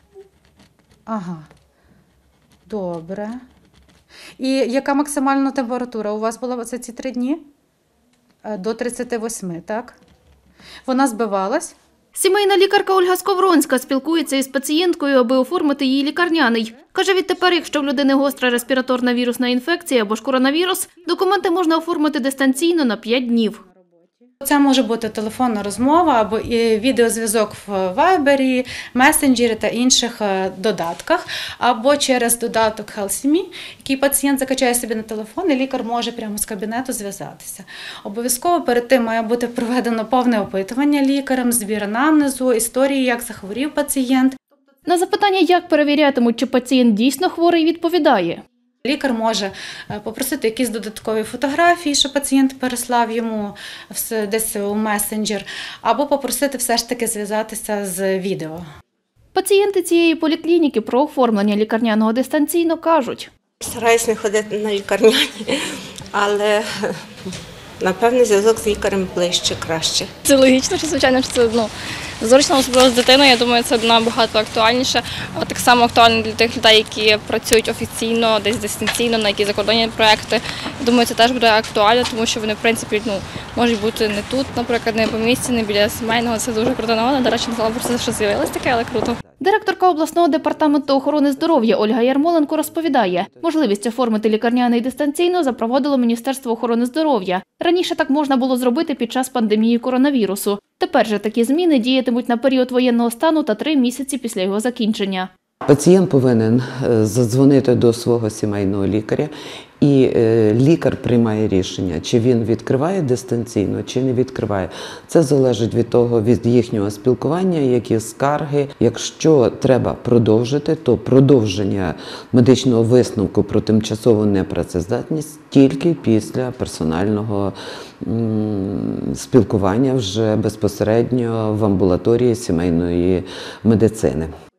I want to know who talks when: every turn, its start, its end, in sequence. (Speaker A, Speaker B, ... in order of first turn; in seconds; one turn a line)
Speaker A: 1.1-1.5
Speaker A: 2.7-3.4
Speaker A: 4.4-7.4
Speaker A: 8.4-10.0
Speaker A: 10.9-11.8
Speaker B: 12.1-23.6
Speaker A: 24.4-44.4
Speaker B: 44.9-48.4
Speaker A: 48.8-58.6
Speaker B: 59.4-63.3
Speaker C: 63.6-70.1
Speaker D: 70.2-89.2
Speaker B: 89.4-105.3
Speaker E: 90.4-93.8
Speaker E: 105.7-134.3